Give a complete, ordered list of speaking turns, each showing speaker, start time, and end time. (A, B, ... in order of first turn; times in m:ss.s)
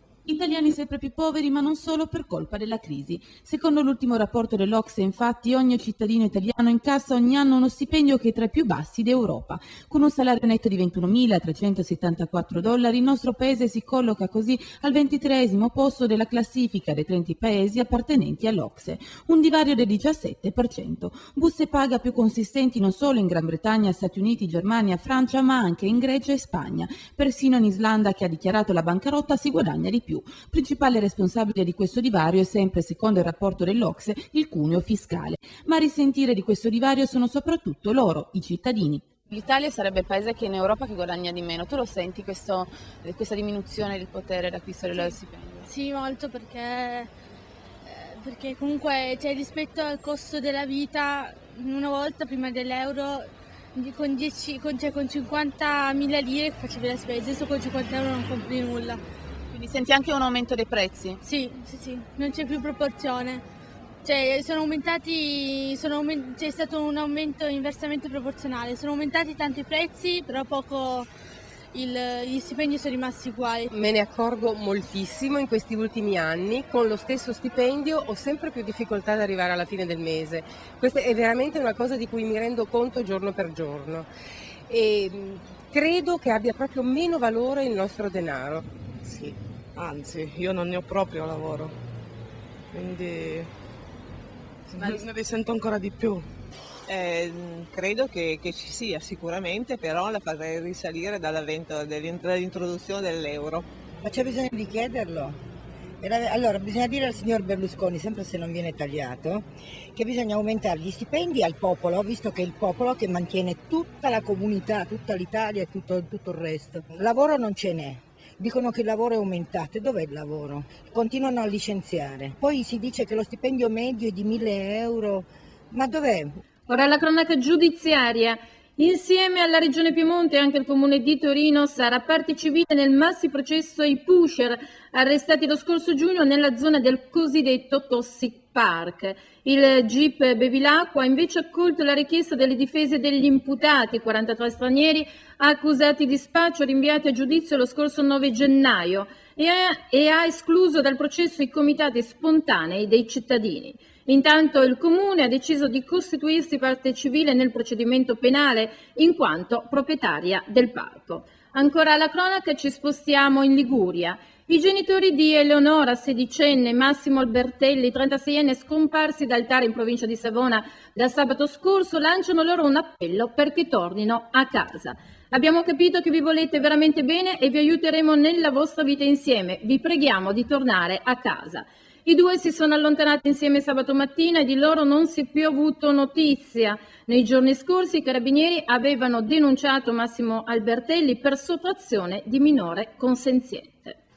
0:00.3-0:39.1 A
0:39.2-0:45.7 B
0:44.9-0:45.2 C
0:45.7-0:47.1 C
0:47.8-0:59.0 C
0:59.5-1:01.2 B
1:01.2-1:03.4 C
1:04.0-1:11.1 C
1:11.7-1:13.7 C
1:13.7-1:24.1 D
1:24.7-1:28.7 D
1:29.0-1:31.8 E
1:32.7-1:33.5 E
1:34.7-1:36.3 E
1:36.9-1:43.7 F
1:44.0-1:45.4 G
1:46.0-2:06.4 G
2:06.7-3:14.0 H